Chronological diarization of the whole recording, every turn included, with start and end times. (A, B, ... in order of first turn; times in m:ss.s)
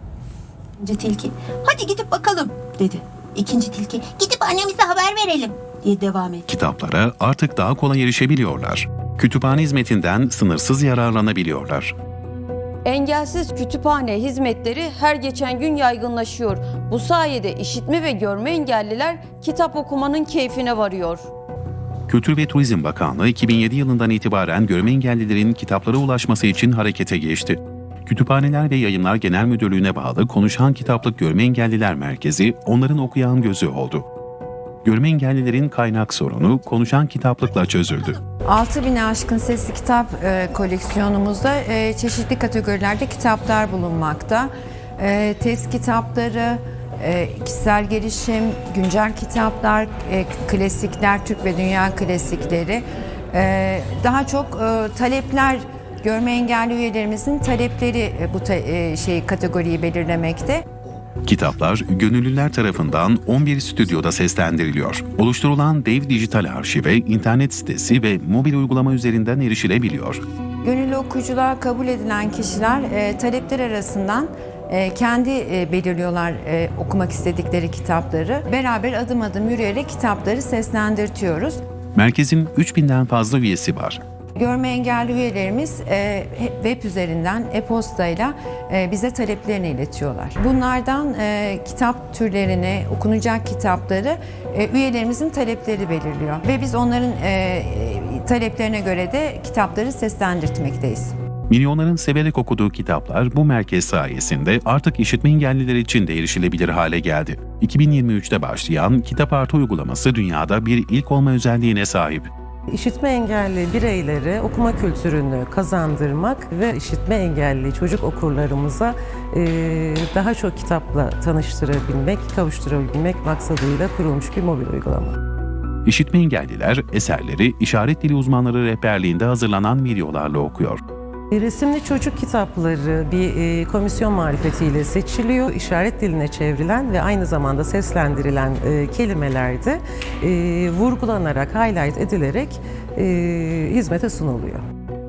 0:00.8-0:06.4 A
0:06.5-0:11.9 B
0:12.8-0:21.3 C
0:22.1-0:34.0 B
0:34.8-0:38.2 B
0:38.5-1:00.6 D
1:01.2-1:10.2 B
1:10.6-1:21.6 D
1:22.0-1:24.0 B
1:24.4-1:41.1 D
1:41.5-1:52.3 B
1:52.7-2:05.2 E
2:05.9-2:10.8 B
2:11.3-2:24.6 E